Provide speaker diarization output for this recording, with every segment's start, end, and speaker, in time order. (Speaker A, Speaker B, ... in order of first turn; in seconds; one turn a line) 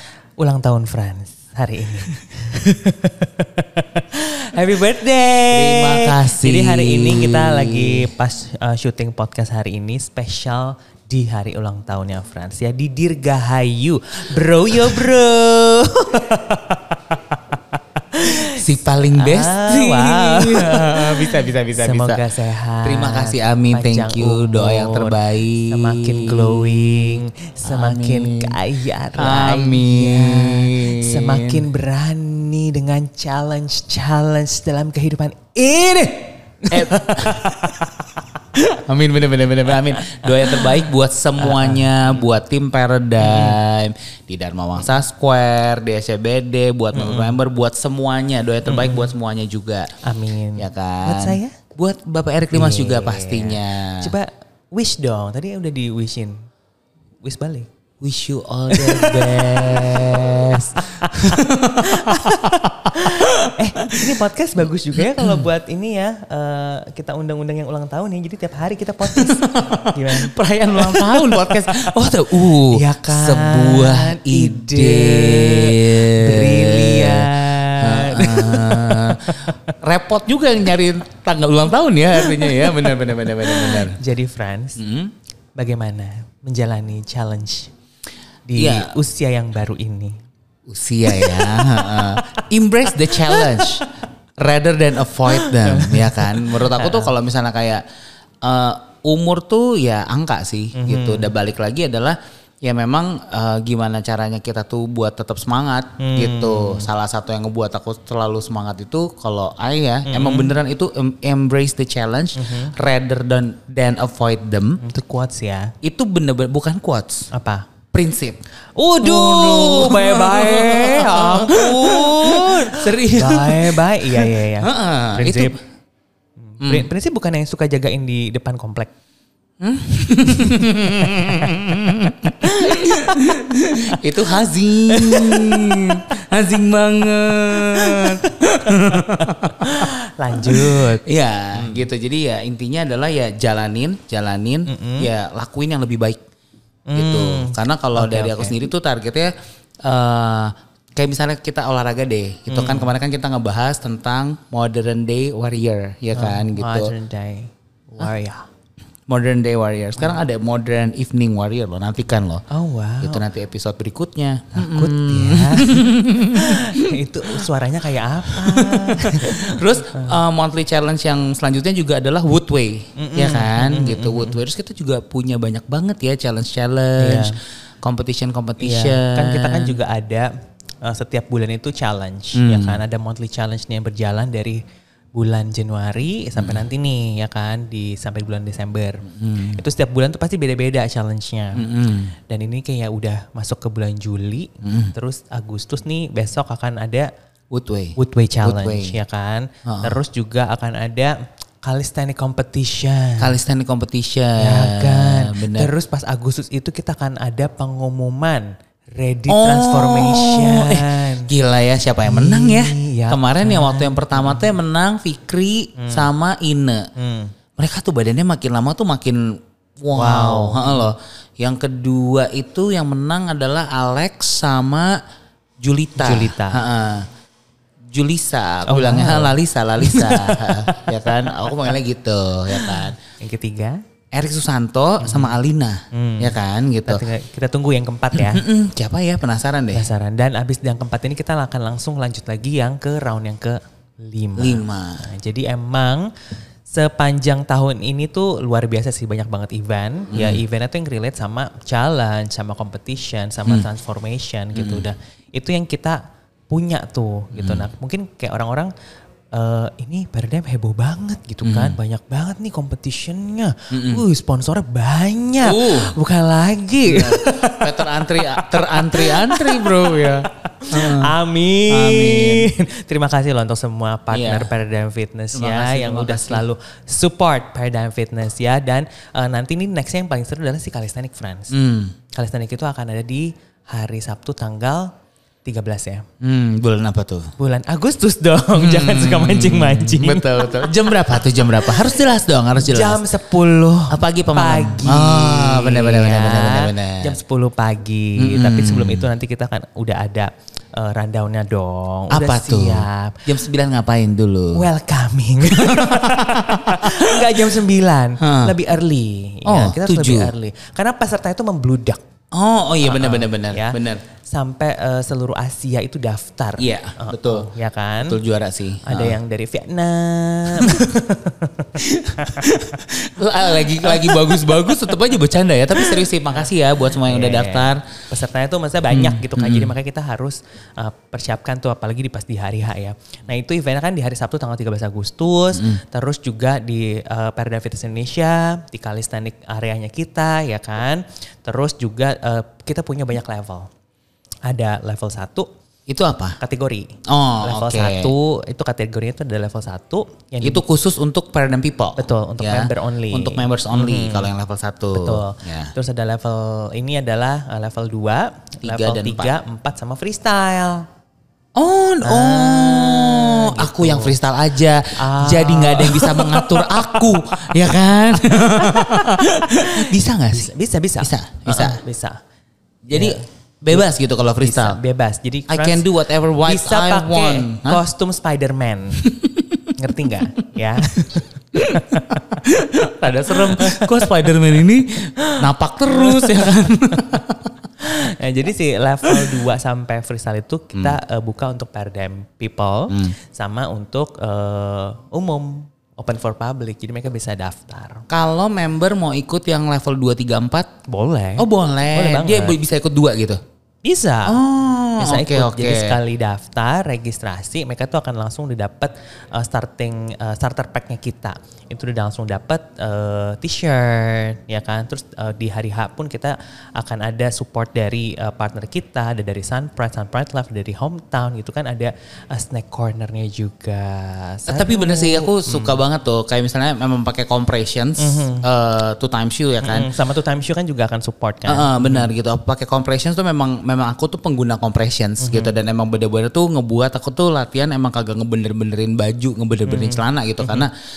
Speaker A: 0.4-38.0
Speaker B: 5.5-8.1
Speaker B: 18.5-22.2
Speaker B: 22.8-28.6
Speaker B: 29.1-31.6
Speaker B: 36.7-37.7
Speaker B: 38.5-49.9
Speaker A: 40.0-40.8
Speaker A: 41.4-42.0
Speaker A: 43.2-43.6
Speaker A: 46.9-47.4
Speaker A: 48.7-49.1
Speaker A: 50.0-51.6
Speaker B: 50.6-54.1
Speaker A: 52.5-56.4
Speaker A: 57.2-57.7
Speaker B: 58.0-64.1
Speaker A: 58.7-79.7
Speaker B: 64.9-65.5
Speaker B: 69.0-84.0
Speaker A: 82.2-84.8
Speaker B: 84.8-85.1
Speaker A: 85.6-87.7
Speaker A: 88.5-90.2
Speaker B: 88.5-88.9
Speaker B: 90.7-97.8
Speaker A: 91.1-92.4
Speaker A: 93.0-93.9
Speaker A: 95.3-97.1
Speaker B: 98.4-114.8
Speaker A: 100.7-101.3
Speaker A: 106.0-106.9
Speaker A: 110.0-110.5
Speaker A: 112.3-112.7
Speaker A: 114.8-115.7
Speaker B: 115.8-117.3
Speaker A: 117.3-117.7
Speaker B: 117.9-118.4
Speaker A: 118.8-125.6
Speaker B: 119.0-125.6
Speaker A: 126.5-128.9
Speaker B: 126.6-126.9
Speaker B: 129.6-146.2
Speaker A: 130.4-131.6
Speaker A: 132.4-133.3
Speaker A: 134.9-136.0
Speaker A: 137.5-138.4
Speaker A: 138.9-141.0
Speaker A: 144.7-145.1
Speaker A: 146.9-148.6
Speaker B: 146.9-149.3
Speaker B: 149.8-156.9
Speaker A: 152.5-152.9
Speaker A: 156.1-158.4
Speaker B: 159.1-162.4
Speaker A: 162.5-163.2
Speaker B: 163.0-166.9
Speaker A: 164.5-170.2
Speaker B: 168.3-179.8
Speaker A: 172.9-174.4
Speaker A: 177.0-177.3
Speaker A: 178.6-180.3
Speaker A: 180.8-184.6
Speaker B: 182.3-182.8
Speaker A: 185.1-191.7
Speaker B: 186.4-186.6
Speaker B: 189.1-189.6
Speaker B: 191.6-192.1
Speaker A: 192.3-197.1
Speaker B: 194.6-194.9
Speaker B: 197.5-198.9
Speaker A: 197.9-203.4
Speaker B: 199.7-199.9
Speaker B: 203.2-205.7
Speaker A: 204.4-211.3
Speaker B: 209.3-216.9
Speaker A: 212.0-214.5
Speaker A: 215.8-216.1
Speaker A: 217.0-217.3
Speaker B: 217.6-225.0
Speaker A: 219.9-220.8
Speaker B: 225.6-227.1
Speaker A: 225.9-226.6
Speaker B: 227.9-233.0
Speaker A: 228.7-231.5
Speaker A: 232.5-233.8
Speaker B: 234.1-237.0
Speaker A: 235.0-235.4
Speaker A: 235.9-238.4
Speaker B: 238.1-239.9
Speaker A: 239.7-246.1
Speaker B: 244.4-245.0
Speaker A: 246.7-258.7
Speaker B: 250.1-250.4
Speaker B: 254.5-254.8
Speaker B: 257.3-257.7
Speaker A: 259.3-281.5
Speaker B: 261.4-261.8
Speaker B: 263.7-264.0
Speaker B: 265.4-265.9
Speaker B: 266.9-271.1
Speaker B: 271.7-272.5
Speaker B: 274.1-274.5
Speaker B: 275.3-276.4
Speaker B: 281.5-281.9
Speaker A: 282.1-284.9
Speaker A: 285.4-286.0
Speaker B: 286.2-287.3
Speaker A: 287.4-290.6
Speaker B: 288.5-293.1
Speaker A: 291.1-291.9
Speaker A: 292.6-303.2
Speaker B: 293.9-297.1
Speaker B: 298.2-299.1
Speaker B: 302.1-304.6
Speaker A: 304.5-312.0
Speaker B: 305.4-307.3
Speaker B: 308.2-308.5
Speaker B: 309.4-310.3
Speaker B: 312.3-314.0
Speaker A: 312.8-318.2
Speaker B: 316.6-317.5
Speaker B: 318.0-319.2
Speaker A: 318.9-322.5
Speaker B: 321.8-327.9
Speaker A: 323.6-324.6
Speaker A: 325.8-326.1
Speaker A: 326.9-343.7
Speaker B: 328.9-329.7
Speaker B: 335.5-335.8
Speaker A: 344.5-345.5
Speaker B: 345.9-346.4
Speaker A: 346.4-350.6
Speaker B: 347.1-348.1
Speaker B: 350.4-355.7
Speaker A: 351.9-354.3
Speaker A: 354.9-360.8
Speaker B: 358.6-359.3
Speaker B: 361.6-371.8
Speaker A: 362.0-364.2
Speaker A: 365.0-367.7
Speaker A: 368.2-372.2
Speaker B: 372.9-374.8
Speaker A: 372.9-379.1
Speaker B: 375.5-377.8
Speaker B: 379.0-379.7
Speaker A: 379.7-382.4
Speaker B: 381.5-387.5
Speaker A: 383.3-384.1
Speaker A: 385.9-387.2
Speaker A: 387.8-398.0
Speaker B: 389.1-389.4
Speaker B: 398.1-400.7
Speaker A: 400.9-402.6
Speaker B: 401.4-403.4
Speaker A: 403.8-404.4
Speaker B: 404.2-406.0
Speaker A: 405.0-425.8
Speaker B: 424.5-429.9
Speaker A: 428.0-428.5
Speaker A: 429.6-432.1
Speaker B: 431.4-440.7
Speaker A: 435.2-435.5
Speaker A: 439.6-440.7